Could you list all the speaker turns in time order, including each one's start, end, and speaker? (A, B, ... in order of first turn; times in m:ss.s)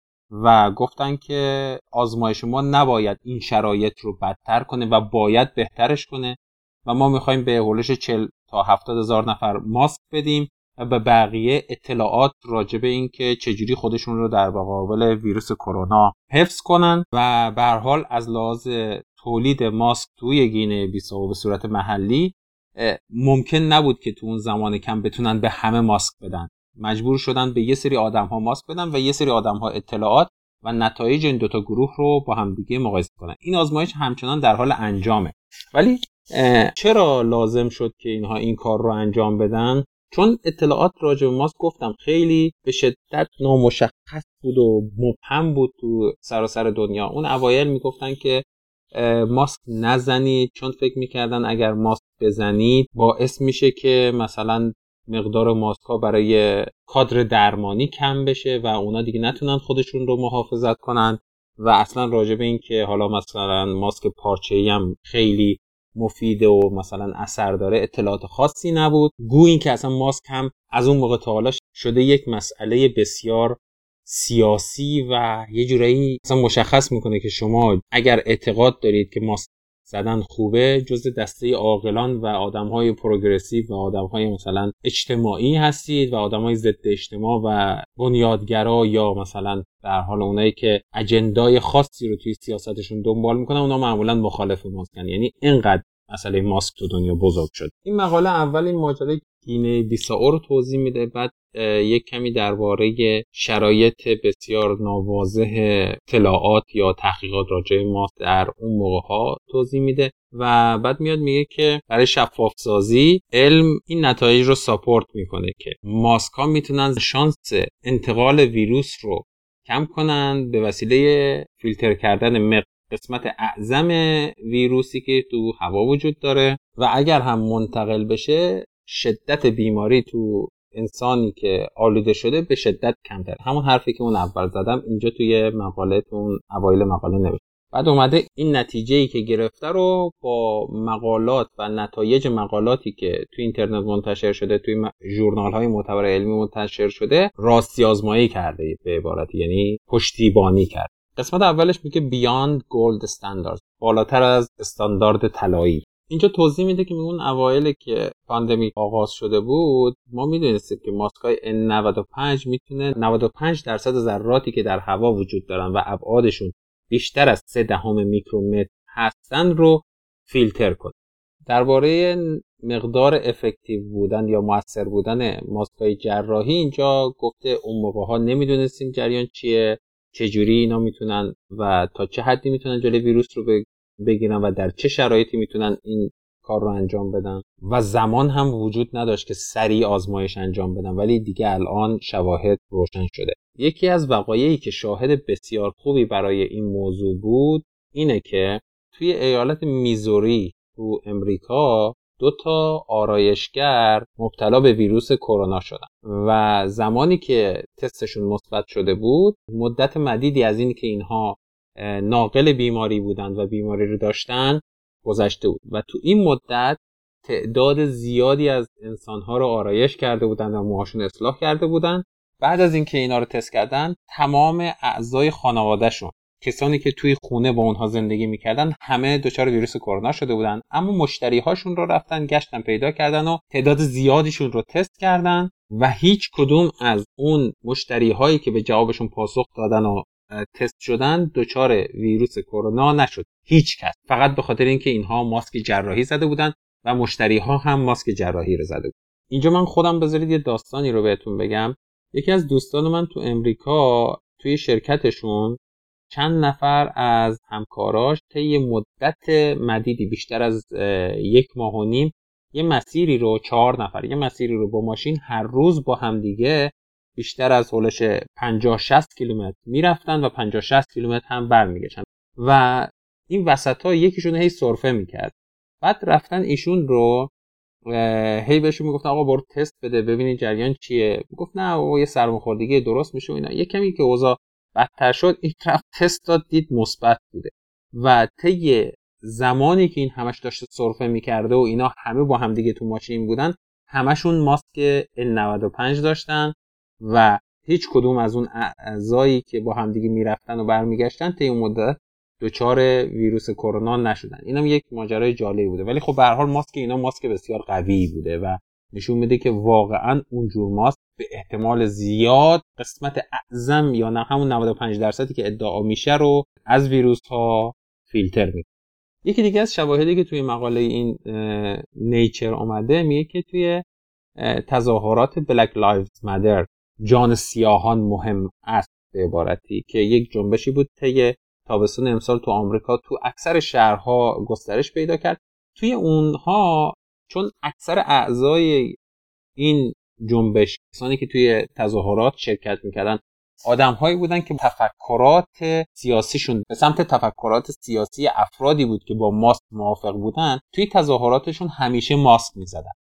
0:00.3-2:50.9 A
2:51.5-4:15.6 A
4:16.1-4:37.3 A
4:37.9-5:18.7 A
5:19.2-5:23.8 A
5:24.4-5:39.0 A
5:39.6-5:52.9 A